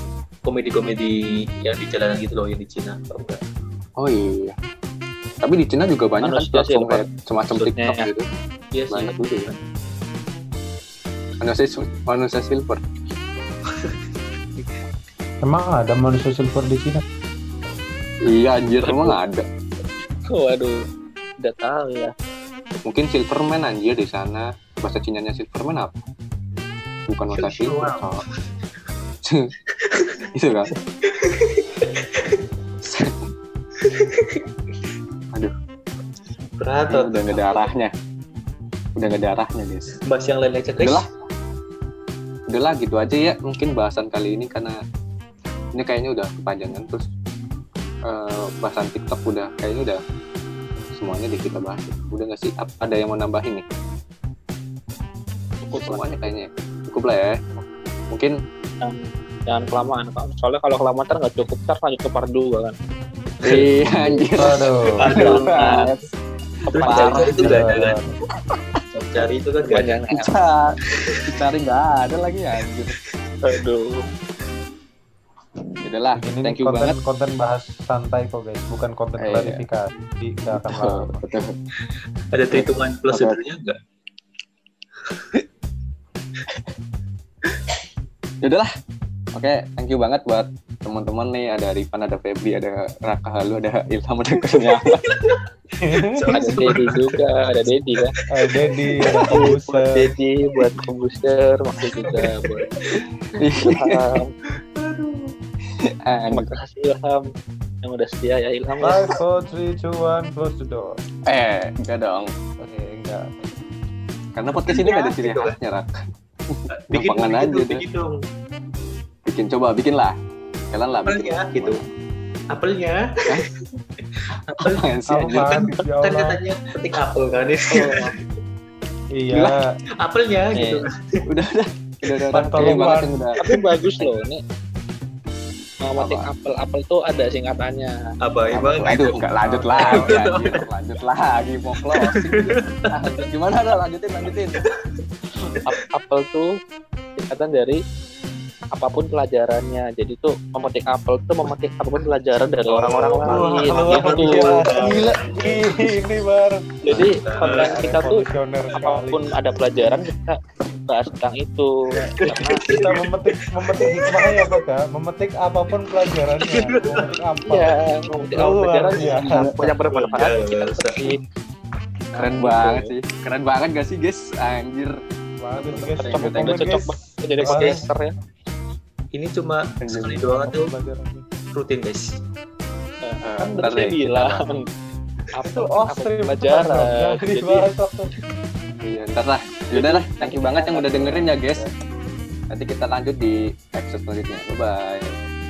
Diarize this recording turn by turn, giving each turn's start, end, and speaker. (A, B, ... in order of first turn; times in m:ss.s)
0:00.4-0:03.4 A
0:04.0-0:04.6 B
0:05.4-0:08.3 B
0:06.2-0:08.1 C
0:08.7-0:09.6 A
0:08.9-0:09.5 B
0:11.4-0:12.8 B
0:13.7-0:14.0 A
0:15.4-0:17.0 D
0:18.3-0:19.4 B
0:18.8-0:19.1 C
0:20.3-0:20.8 C
0:21.4-0:22.1 C
0:22.8-0:26.0 B
0:27.1-0:28.2 B
0:27.3-0:28.1 A
0:29.2-0:29.5 B
0:29.8-0:30.2 A
0:30.4-0:30.7 B
0:31.0-0:32.4 A
0:32.8-0:33.1 B
0:33.8-0:34.4 A
0:36.6-0:37.7 A
0:36.9-0:37.9 B
0:39.0-0:40.0 B
0:40.0-0:41.0 A
0:40.8-0:41.1 B
0:42.5-0:44.8 B
0:45.7-0:47.1 B
0:48.1-0:50.0 B
0:50.9-0:53.6 B
0:55.6-0:56.1 C
0:55.7-0:57.4 B
0:58.8-1:02.7 C
1:03.4-1:06.0 B
1:03.5-1:04.2 A
1:04.4-1:05.0 D
1:05.0-1:05.9 A
1:05.1-1:05.8 C
1:06.7-1:08.0 A
1:06.7-1:07.7 B
1:06.8-1:07.3 C
1:07.4-1:08.0 D
1:08.9-1:10.3 A
1:09.7-1:10.3 C
1:10.1-1:13.0 B
1:11.0-1:11.4 A
1:13.4-1:14.0 C
1:15.8-1:17.0 B
1:16.2-1:21.2 D
1:19.2-1:19.6 B
1:20.5-1:21.5 B
1:22.3-1:23.8 A
1:22.5-1:23.4 B
1:28.4-1:28.7 B
1:29.4-1:35.1 B
1:34.6-1:35.4 A
1:35.8-1:36.2 D
1:36.0-1:39.6 A
1:36.3-1:38.1 C
1:38.3-1:40.0 D
1:39.1-1:42.7 C
1:40.5-1:40.8 A
1:42.0-1:43.0 A
1:43.4-1:44.1 B
1:43.6-1:44.3 C
1:44.5-1:45.4 A
1:45.8-1:46.5 B
1:46.3-1:47.2 C
1:47.8-1:49.0 C
1:48.8-1:50.9 D
1:51.3-1:52.3 B
1:52.6-1:53.5 D
1:54.4-1:55.9 B
1:54.7-1:55.6 A
1:56.5-1:57.8 B
1:56.7-1:58.2 A
1:59.3-2:00.2 B
2:00.7-2:01.8 B
2:01.0-2:01.8 A
2:02.5-2:03.4 A
2:04.1-2:08.1 A
2:04.5-2:05.7 B
2:05.1-2:06.4 D
2:09.2-2:09.7 D
2:10.0-2:11.2 A
2:11.3-2:13.4 B
2:12.3-2:13.2 D
2:13.4-2:14.4 C
2:15.9-2:17.9 C
2:16.0-2:16.3 B
2:18.2-2:19.2 A
2:18.5-2:24.6 B
2:19.4-2:20.1 D
2:19.8-2:20.7 A
2:21.9-2:23.2 A
2:24.3-2:24.6 A
2:25.7-2:26.5 C
2:27.2-2:27.8 C
2:28.7-2:34.7 C
2:32.8-2:36.0 A
2:33.2-2:36.6 D
2:36.9-2:38.2 C
2:36.9-2:37.8 A
2:37.4-2:39.2 D
2:38.8-2:42.6 C
2:42.1-2:44.6 A
2:42.6-2:47.7 D
2:46.0-2:47.1 A
2:47.5-2:51.2 C
2:48.3-2:49.7 D
2:49.0-2:49.2 A
2:49.9-2:51.0 A
2:52.1-2:52.9 C
2:52.2-2:55.0 B
2:55.4-2:57.8 D
2:55.7-2:56.0 A
2:55.7-2:56.7 B
2:56.3-2:58.1 C
2:57.4-2:57.8 A
2:59.1-3:00.7 A
2:59.8-3:00.4 B
3:00.2-3:01.2 D
3:01.5-3:02.0 A
3:03.0-3:04.6 C
3:03.2-3:04.4 B
3:05.4-3:07.7 C
3:05.4-3:08.1 D
3:08.8-3:11.7 B
3:09.7-3:11.4 C
3:11.4-3:11.7 D
3:12.5-3:15.2 B